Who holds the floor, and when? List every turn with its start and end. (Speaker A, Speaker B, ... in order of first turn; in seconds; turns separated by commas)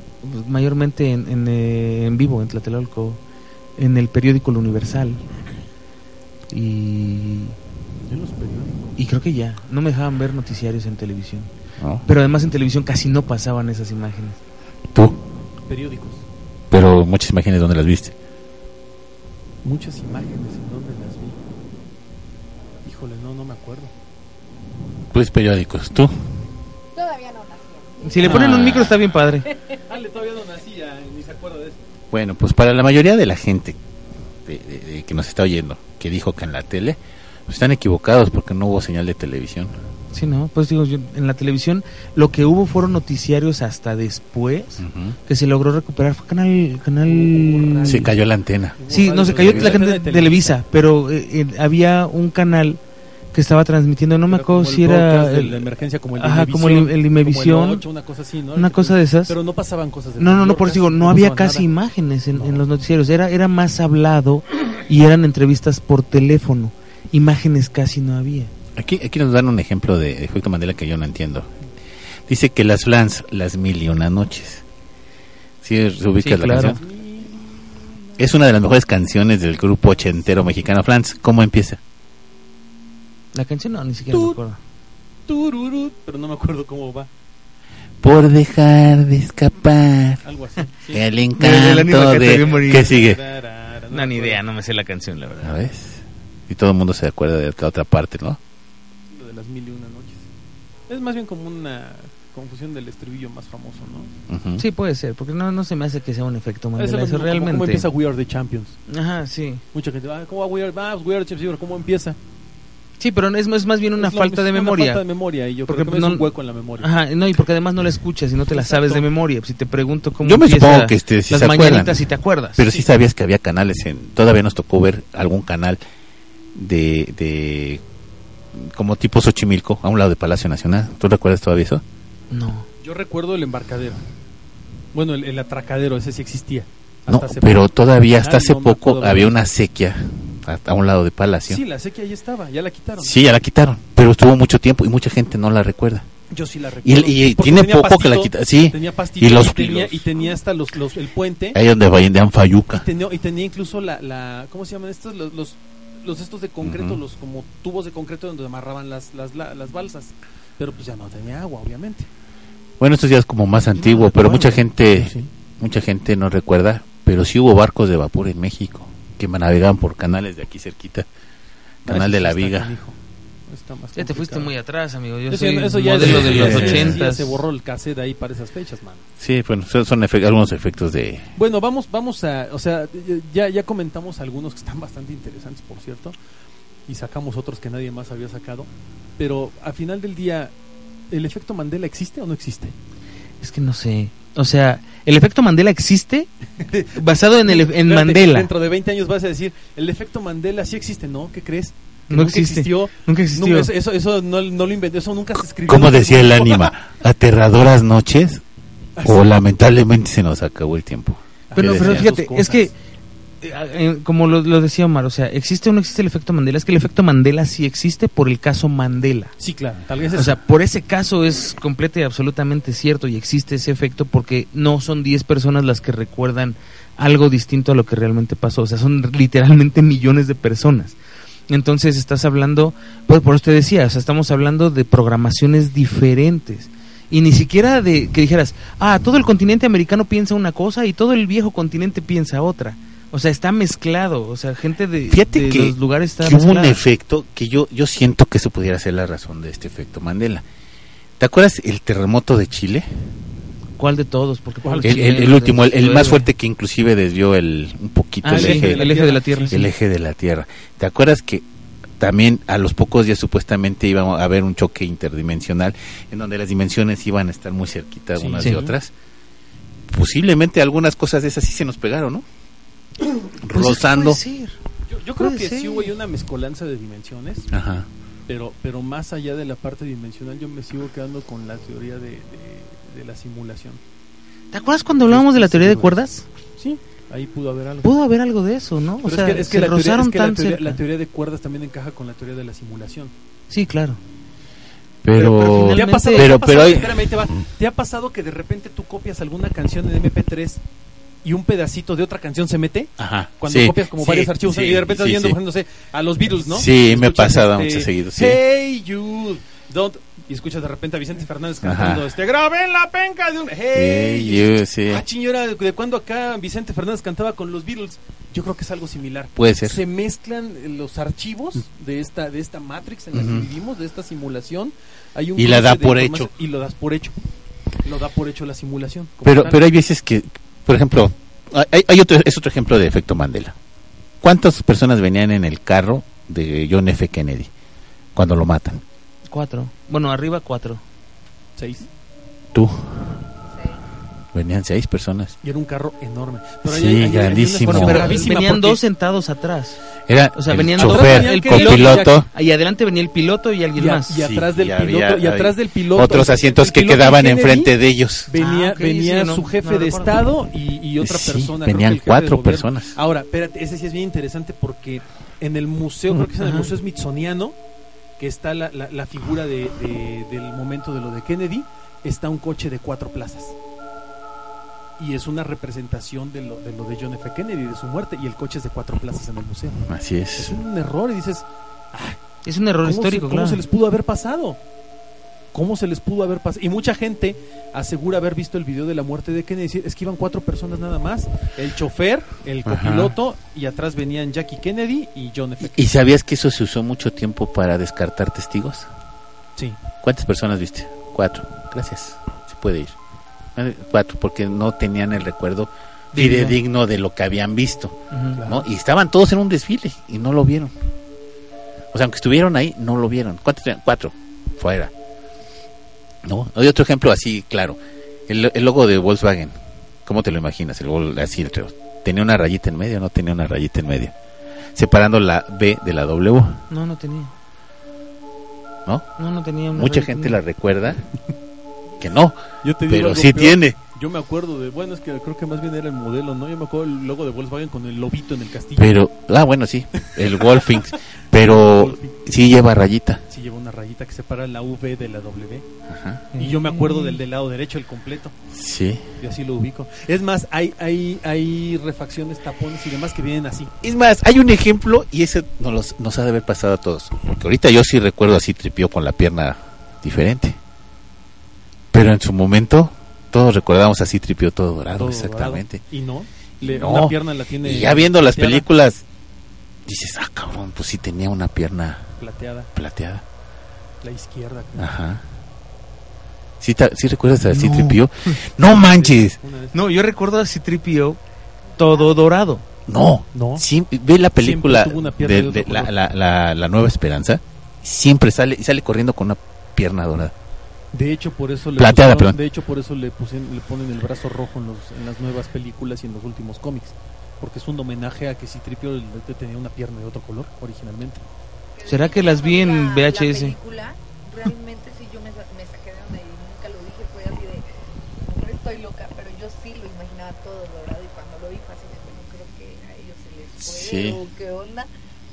Speaker A: 0.2-3.2, Speaker A: 3.8-5.2, Speaker A: 6.5-7.6, Speaker B: 8.1-8.9, Speaker A: 9.0-11.5, Speaker C: 11.8-12.0, Speaker A: 12.0-14.4, Speaker C: 14.9-15.2, Speaker B: 15.7-16.2, Speaker C: 16.7-18.1, Speaker B: 19.6-21.4, Speaker B: 22.8-23.9, Speaker C: 25.1-26.4, Speaker D: 26.9-28.4, Speaker A: 28.0-29.5, Speaker B: 28.2-28.7, Speaker C: 28.2-29.1, Speaker D: 29.5-29.8, Speaker B: 29.9-31.8, Speaker C: 32.1-33.8, Speaker C: 34.4-39.7, Speaker A: 40.1-48.1, Speaker C: 44.8-45.2, Speaker B: 47.0-48.2, Speaker C: 47.9-48.8, Speaker B: 48.8-50.6, Speaker A: 48.9-52.8, Speaker C: 49.4-49.8, Speaker A: 53.3-55.6, Speaker B: 54.3-61.7, Speaker A: 56.2-57.8, Speaker A: 58.5-59.3, Speaker A: 60.2-68.5, Speaker B: 62.3-62.6, Speaker C: 68.7-71.5, Speaker C: 72.3-74.6, Speaker C: 75.6-76.8, Speaker A: 76.2-76.8, Speaker B: 76.5-77.6, Speaker C: 78.2-81.8, Speaker B: 79.9-80.3, Speaker A: 83.3-84.6, Speaker B: 84.1-84.4, Speaker B: 85.3-87.1, Speaker C: 88.0-90.2, Speaker B: 90.2-91.0, Speaker C: 90.9-93.2, Speaker A: 91.4-93.0, Speaker B: 92.0-94.4, Speaker A: 93.9-95.6, Speaker C: 95.4-98.4, Speaker B: 99.1-100.2, Speaker B: 100.9-104.1, Speaker C: 104.3-104.6, Speaker A: 104.6-107.9, Speaker B: 106.8-108.8, Speaker A: 108.9-109.6, Speaker B: 109.7-112.2, Speaker A: 113.0-115.0, Speaker B: 114.0-116.9, Speaker A: 115.7-116.2, Speaker A: 116.8-122.7, Speaker B: 118.5-119.0, Speaker C: 120.2-125.8, Speaker C: 126.5-127.8, Speaker C: 128.5-131.8, Speaker A: 132.3-132.7, Speaker B: 132.8-134.0, Speaker B: 134.9-139.3, Speaker C: 137.1-141.6, Speaker B: 141.5-143.2, Speaker C: 143.0-146.1, Speaker B: 146.3-151.6, Speaker C: 146.8-150.1, Speaker C: 151.5-152.8, Speaker B: 152.7-162.1, Speaker C: 156.6-157.0, Speaker C: 162.8-171.1, Speaker A: 163.8-164.5, Speaker B: 164.2-165.3, Speaker C: 171.8-172.7, Speaker B: 171.8-173.0, Speaker B: 173.5-174.5, Speaker A: 173.9-177.4, Speaker B: 175.3-179.1, Speaker C: 176.0-177.0, Speaker C: 179.2-181.3, Speaker B: 181.3-186.1, Speaker B: 186.9-190.5, Speaker B: 191.1-192.7, Speaker A: 193.4-196.3, Speaker B: 196.6-206.7, Speaker A: 196.9-198.5, Speaker A: 202.1-203.7, Speaker C: 205.7-208.4, Speaker B: 209.0-209.3, Speaker C: 209.0-212.1, Speaker B: 211.5-212.7, Speaker A: 211.6-212.7, Speaker A: 213.4-219.3, Speaker B: 219.4-220.4, Speaker A: 220.1-231.0, Speaker A: 231.5-246.8, Speaker C: 245.1-250.4, Speaker C: 251.2-252.9, Speaker A: 253.8-256.2, Speaker B: 254.6-255.2, Speaker C: 254.8-258.9, Speaker A: 258.2-259.6, Speaker B: 258.3-259.6, Speaker C: 259.5-261.4, Speaker C: 262.0-268.9, Speaker B: 268.1-268.6, Speaker A: 268.4-268.7, Speaker C: 269.9-272.2, Speaker C: 273.4-274.2, Speaker A: 273.5-274.6, Speaker B: 274.9-277.5, Speaker A: 275.2-275.9, Speaker C: 277.5-277.9, Speaker B: 278.3-283.8, Speaker A: 284.5-286.2, Speaker B: 285.0-286.0, Speaker B: 286.6-287.9, Speaker A: 287.8-290.8, Speaker B: 289.0-293.1, Speaker A: 293.5-294.0, Speaker C: 295.0-297.2, Speaker A: 295.1-296.3, Speaker B: 295.2-300.6, Speaker B: 301.2-327.2, Speaker C: 303.0-305.4, Speaker C: 306.5-308.4, Speaker C: 311.6-312.1, Speaker C: 313.7-315.0, Speaker C: 319.4-319.8, Speaker C: 323.1-323.5, Speaker C: 325.4-326.3, Speaker B: 327.8-329.6, Speaker C: 329.2-333.5, Speaker C: 334.2-337.5, Speaker C: 338.1-338.8, Speaker A: 339.3-340.8, Speaker B: 341.6-341.9, Speaker C: 342.5-343.1, Speaker D: 343.5-343.8, Speaker C: 344.3-345.3, Speaker B: 345.4-348.8, Speaker C: 346.6-348.3, Speaker A: 347.6-349.8, Speaker C: 350.1-352.3, Speaker A: 350.3-354.2, Speaker B: 350.8-352.2, Speaker B: 353.8-367.5, Speaker C: 354.2-358.3, Speaker A: 358.4-360.2, Speaker C: 361.0-362.9, Speaker A: 366.3-366.7, Speaker B: 368.2-373.5, Speaker B: 375.0-382.2, Speaker C: 379.8-380.6, Speaker A: 382.4-383.6, Speaker B: 382.8-384.6, Speaker B: 385.5-395.9, Speaker C: 392.6-393.1, Speaker C: 395.7-398.9, Speaker C: 400.0-402.9, Speaker C: 403.6-410.7, Speaker A: 406.1-406.6, Speaker A: 408.1-408.4, Speaker B: 408.4-408.6, Speaker C: 411.9-414.9, Speaker C: 416.2-417.8, Speaker C: 418.3-424.1, Speaker C: 424.7-426.6, Speaker A: 426.7-427.3, Speaker A: 429.2-430.4, Speaker C: 429.7-431.0, Speaker C: 432.0-433.8, Speaker B: 432.6-438.9, Speaker C: 438.8-443.2, Speaker B: 440.0-440.9, Speaker B: 441.4-442.2, Speaker B: 443.3-445.6, Speaker C: 445.9-446.3, Speaker A: 446.3-447.2, Speaker B: 446.4-448.4, Speaker C: 448.5-449.1, Speaker B: 449.2-453.7, Speaker C: 453.8-460.6, Speaker C: 461.9-465.8, Speaker B: 464.9-468.6, Speaker C: 466.6-469.0, Speaker C: 469.9-472.0, Speaker B: 472.2-472.7, Speaker C: 472.7-473.2, Speaker B: 474.0-474.9, Speaker C: 474.8-475.2, Speaker C: 476.6-479.4, Speaker A: 477.5-478.3, Speaker B: 478.6-479.8, Speaker A: 479.7-481.2, Speaker A: 481.8-482.6, Speaker D: 481.8-482.1, Speaker C: 482.9-490.3, Speaker B: 483.3-483.6, Speaker B: 484.4-485.9, Speaker B: 490.9-501.2, Speaker C: 491.8-492.4, Speaker D: 501.7-514.9, Speaker A: 501.9-503.6, Speaker C: 513.6-514.2